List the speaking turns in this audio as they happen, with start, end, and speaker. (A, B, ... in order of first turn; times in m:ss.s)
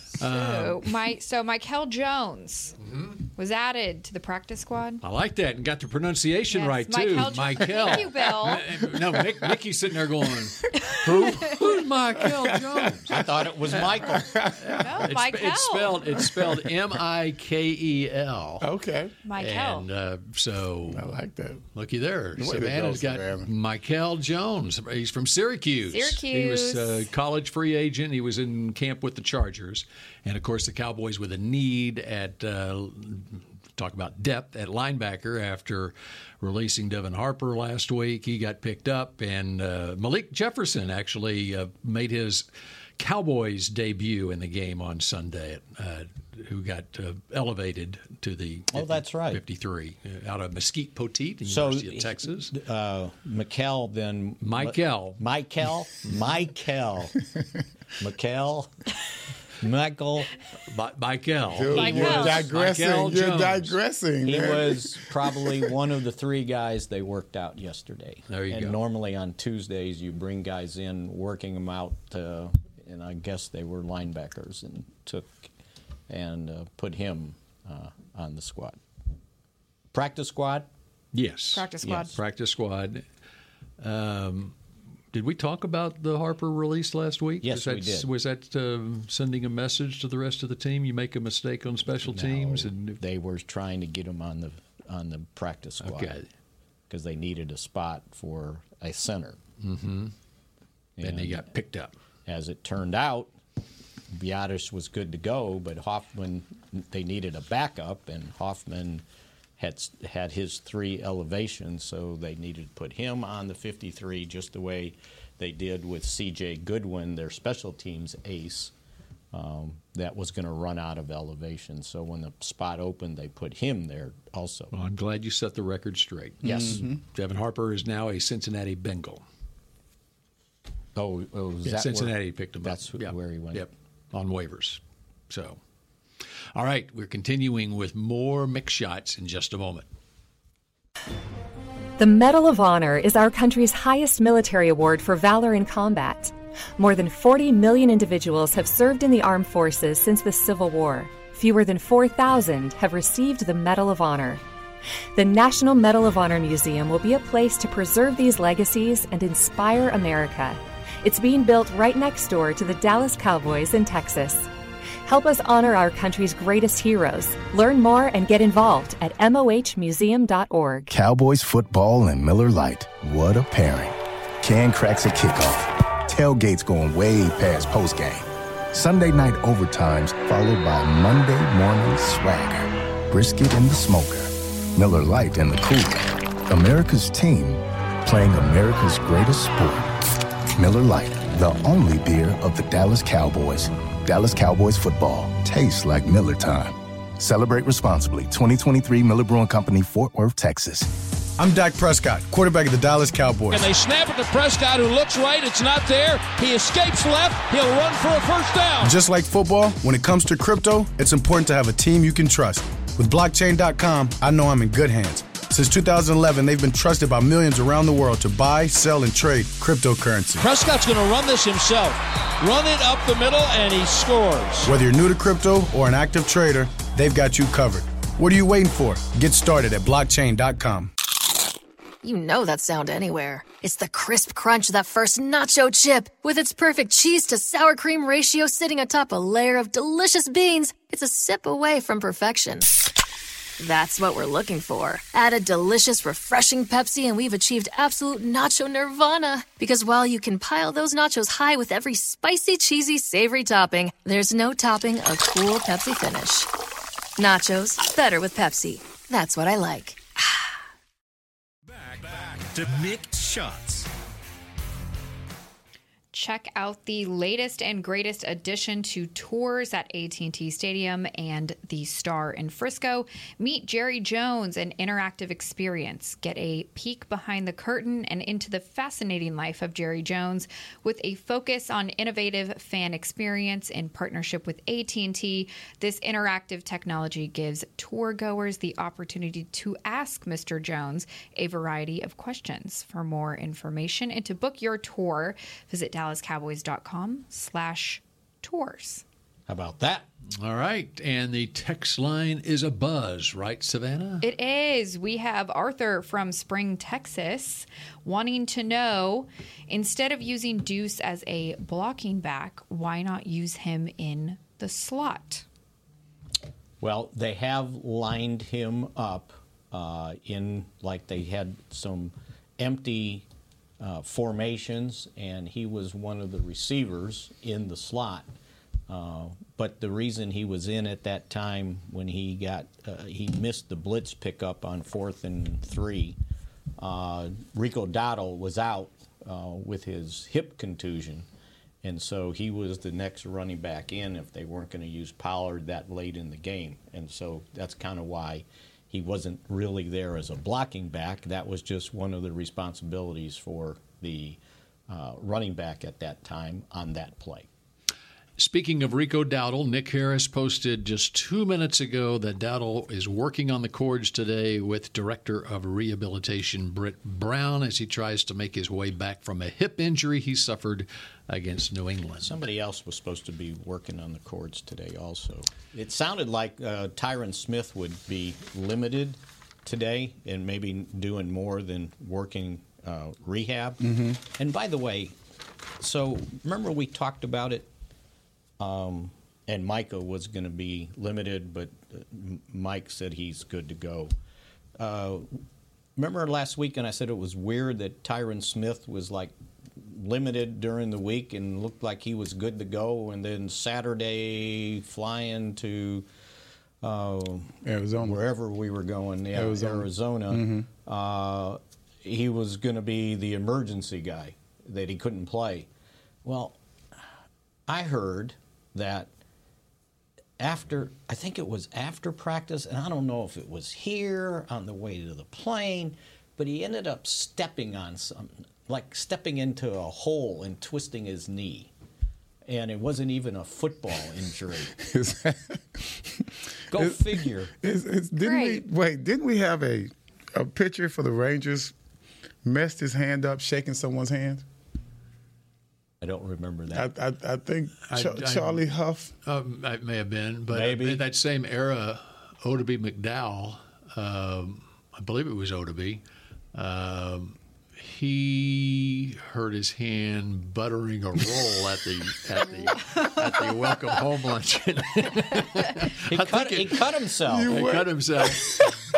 0:00.2-0:00.9 A
0:00.2-0:02.8 B
0:03.4-0:05.0 B
0:05.0-0:13.2 A
0:06.5-0:08.8 B
0:10.7-0:11.6 C
0:12.2-0:13.2 C
0:13.1-0:14.3 D
0:13.7-0:14.1 A
0:14.1-0:15.0 C
0:14.6-0:18.7 A
0:14.8-0:16.2 B
0:16.2-0:16.7 C
0:18.6-0:19.2 C
0:19.2-0:19.9 B
0:19.4-0:21.1 A
0:20.9-0:21.6 C
0:21.8-0:42.5 A
0:22.4-0:23.5 C
0:25.9-0:27.0 B
0:43.0-0:52.5 A
0:48.7-0:49.4 D
0:51.5-0:57.2 D
0:54.4-0:55.2 A
0:58.0-0:58.7 D
0:59.6-1:00.3 D
1:00.7-1:03.8 A
1:01.5-1:05.6 C
1:01.7-1:02.4 B
1:04.2-1:15.5 D
1:08.3-1:08.8 A
1:16.1-1:18.8 D
1:19.9-1:20.7 D
1:21.1-1:23.0 A
1:21.5-1:22.2 B
1:21.8-1:22.1 D
1:23.8-1:24.6 A
1:25.1-1:33.0 A
1:27.4-1:28.1 D
1:32.0-1:36.2 D
1:35.8-1:36.3 A
1:36.9-1:39.4 D
1:39.6-1:40.1 A
1:41.0-1:41.5 D
1:41.0-1:41.9 A
1:42.3-1:43.4 D
1:44.1-1:49.0 D
1:49.6-1:58.7 D
1:59.3-2:04.7 D
2:04.7-2:09.2 A
2:06.4-2:06.9 D
2:06.4-2:06.9 C
2:11.0-2:13.7 D
2:11.6-2:15.6 A
2:16.5-2:19.9 A
2:22.0-2:34.4 E
2:35.2-2:44.5 E
2:45.1-2:50.9 E
2:50.9-3:09.9 F
3:10.5-3:20.9 F
3:21.4-3:23.7 G
3:23.5-3:28.9 H
3:28.8-3:40.5 G
3:40.4-3:44.7 H
3:44.6-3:50.9 G
3:52.0-4:02.7 I
4:03.6-4:16.5 I
4:17.2-4:20.5 I
4:21.7-4:23.9 H
4:26.1-4:59.0 B
4:59.5-5:00.1 D
5:00.4-5:04.3 A
5:04.2-5:15.4 B
5:16.8-5:23.3 D
5:23.8-5:28.3 D
5:28.9-5:36.2 D
5:36.8-5:41.3 D
5:41.8-5:57.5 D
5:58.4-6:12.4 A
6:12.2-6:25.2 D
6:23.8-6:24.2 C
6:25.8-6:27.7 D
6:28.6-6:34.1 D
6:34.8-6:35.4 D
6:36.0-6:46.1 D
6:46.8-6:55.7 D
6:47.6-6:48.2 C
6:49.4-6:50.7 C
6:56.2-6:56.6 D
6:57.7-6:59.1 D
7:00.4-7:11.7 D
7:12.5-7:14.8 D
7:14.8-7:16.2 C
7:16.7-7:17.5 D
7:16.8-7:21.7 C
7:18.2-7:18.6 B
7:22.4-7:24.4 C
7:26.0-7:26.9 D
7:26.7-7:29.1 C
7:27.9-7:28.6 A
7:29.2-7:36.0 A
7:30.5-7:31.0 D
7:36.5-7:46.8 A
7:46.1-7:47.6 D
7:47.3-7:48.7 C
7:47.5-7:48.8 A